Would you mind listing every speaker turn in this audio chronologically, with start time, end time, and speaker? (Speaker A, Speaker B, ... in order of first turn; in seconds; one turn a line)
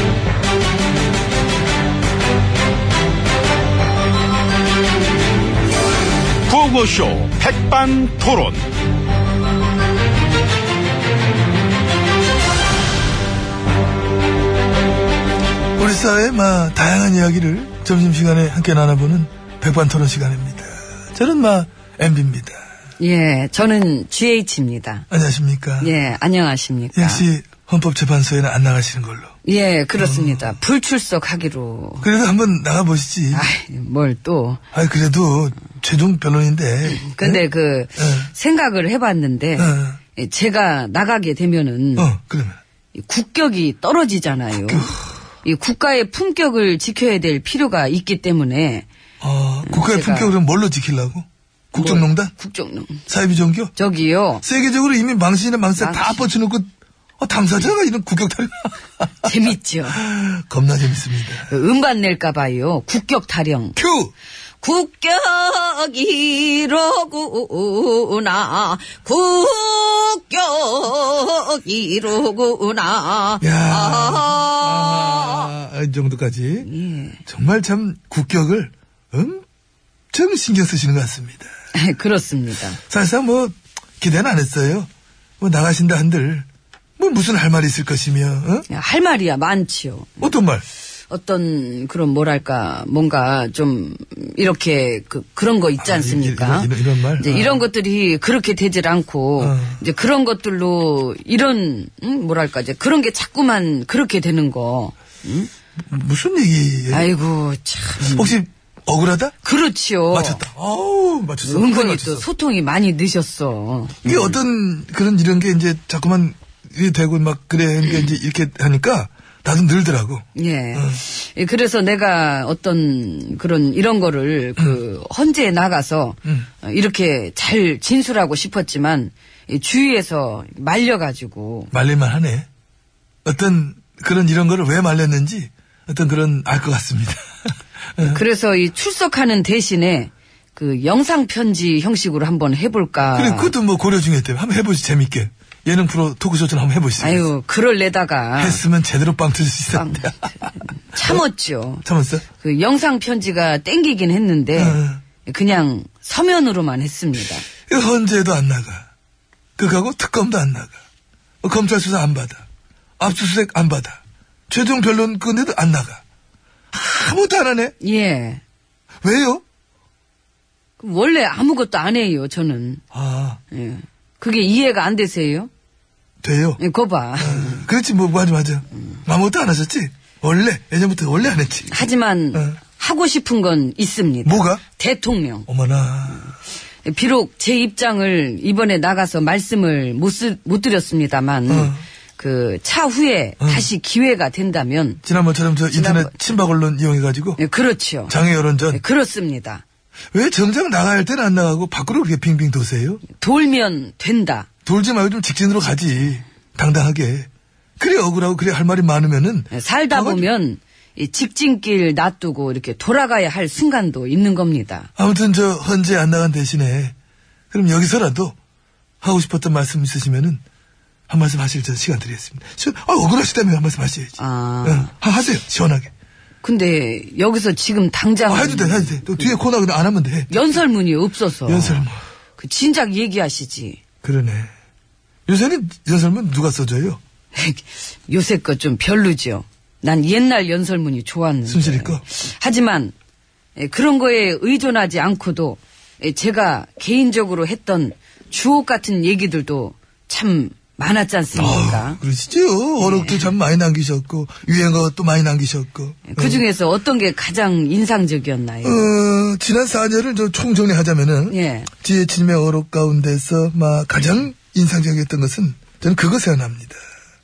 Speaker A: 6.5-8.6
Speaker B: 15.8-22.6
Speaker C: 23.0-25.1
Speaker B: 25.1-26.0
Speaker C: 25.8-27.2
Speaker B: 26.9-29.3
Speaker C: 29.4-32.1
Speaker B: 30.0-30.5
Speaker B: 32.0-33.5
Speaker C: 33.3-34.6
Speaker B: 34.7-37.4
Speaker C: 36.9-42.1
Speaker B: 38.0-38.3
Speaker B: 39.5-40.0
Speaker B: 42.0-42.6
Speaker C: 42.9-44.9
Speaker B: 44.6-45.0
Speaker C: 45.4-48.9
Speaker B: 49.2-52.3
Speaker C: 49.6-50.4
Speaker C: 51.7-53.0
Speaker B: 53.1-53.7
Speaker C: 53.7-54.4
Speaker B: 54.4-59.3
Speaker C: 55.8-56.2
Speaker C: 59.2-60.0
Speaker B: 59.9-61.5
Speaker C: 61.5-63.8
Speaker B: 63.8-64.1
Speaker C: 64.6-75.5
Speaker B: 73.4-76.7
Speaker C: 76.6-77.2
Speaker B: 77.2-79.4
Speaker B: 80.1-81.5
Speaker C: 81.7-82.8
Speaker B: 82.9-84.9
Speaker B: 85.4-86.5
Speaker B: 87.0-88.7
Speaker C: 88.7-90.3
Speaker B: 90.2-90.6
Speaker C: 91.1-105.5
Speaker B: 95.8-97.6
Speaker B: 99.4-99.8
Speaker B: 105.9-107.1
Speaker C: 106.9-108.3
Speaker B: 108.0-109.3
Speaker C: 109.4-110.4
Speaker B: 110.1-112.2
Speaker C: 111.4-114.3
Speaker B: 114.0-121.0
Speaker C: 120.3-131.7
Speaker B: 131.7-132.5
Speaker B: 133.2-137.2
Speaker B: 138.0-138.2
Speaker C: 138.0-143.5
Speaker B: 143.1-147.3
Speaker C: 147.0-148.6
Speaker B: 148.4-151.2
Speaker C: 149.7-151.8
Speaker B: 151.8-152.2
Speaker C: 152.4-157.4
Speaker B: 154.5-155.0
Speaker B: 157.7-158.9
Speaker B: 159.6-160.8
Speaker B: 161.4-162.4
Speaker B: 163.0-166.0
Speaker B: 166.7-167.7
Speaker C: 167.8-168.4
Speaker B: 169.0-169.4
Speaker C: 170.8-172.8
Speaker B: 172.9-173.4
Speaker C: 173.5-175.5
Speaker B: 176.2-176.6
Speaker C: 176.6-177.6
Speaker B: 177.2-182.6
Speaker C: 181.7-185.5
Speaker B: 184.2-184.6
Speaker B: 185.5-186.3
Speaker C: 186.8-195.0
Speaker B: 191.5-191.8
Speaker B: 193.4-193.7
Speaker B: 195.0-197.4
Speaker C: 195.7-196.1
Speaker C: 197.4-198.2
Speaker B: 198.1-198.8
Speaker C: 198.7-199.6
Speaker B: 200.1-203.0
Speaker C: 203.1-204.5
Speaker B: 204.6-210.3
Speaker C: 209.5-214.9
Speaker B: 214.9-216.9
Speaker B: 217.5-218.3
Speaker B: 219.0-220.4
Speaker B: 221.1-225.9
Speaker C: 224.2-224.9
Speaker C: 226.4-229.4
Speaker B: 228.3-230.4
Speaker C: 230.3-233.8
Speaker B: 231.4-232.0
Speaker B: 234.0-234.5
Speaker B: 235.3-237.0
Speaker C: 237.3-242.9
Speaker B: 241.4-242.0
Speaker C: 243.6-252.0
Speaker B: 251.3-256.4
Speaker C: 252.8-253.3
Speaker C: 256.1-258.9
Speaker B: 258.6-266.8
Speaker C: 261.3-261.7